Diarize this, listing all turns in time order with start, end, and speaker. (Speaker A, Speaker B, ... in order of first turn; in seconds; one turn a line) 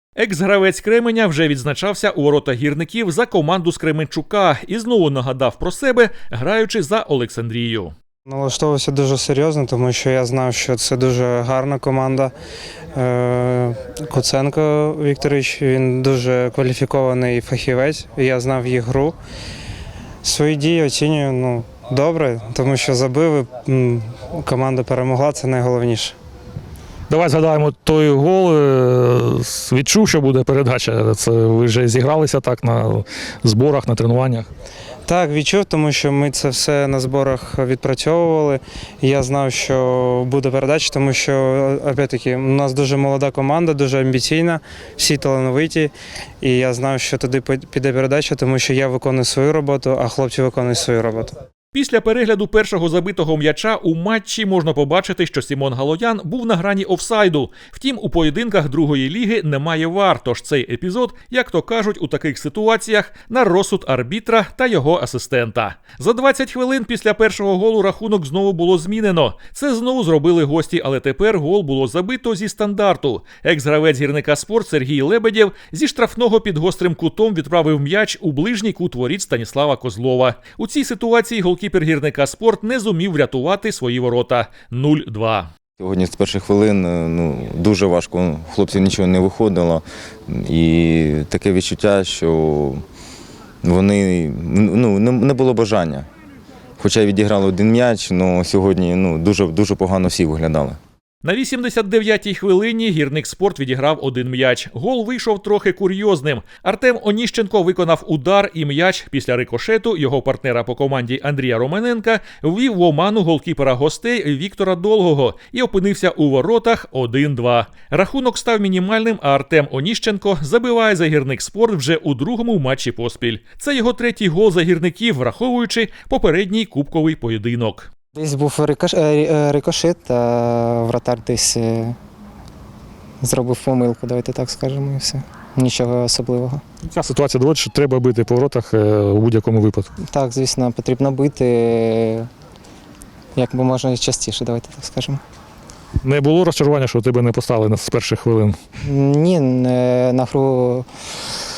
Speaker A: 0.2-7.9
Speaker B: 8.3-12.3
Speaker B: 13.0-19.1
Speaker B: 20.2-26.1
Speaker C: 27.1-34.5
Speaker B: 35.1-45.9
Speaker B: 46.4-51.3
Speaker A: 51.7-85.5
Speaker D: 85.8-92.8
Speaker D: 93.6-96.1
Speaker D: 96.8-100.8
Speaker A: 101.2-127.9
Speaker E: 128.2-131.9
Speaker E: 133.2-136.6
Speaker C: 137.0-138.5
Speaker E: 140.0-142.3
Speaker E: 143.4-145.2
Speaker C: 146.1-148.4
Speaker E: 148.8-150.9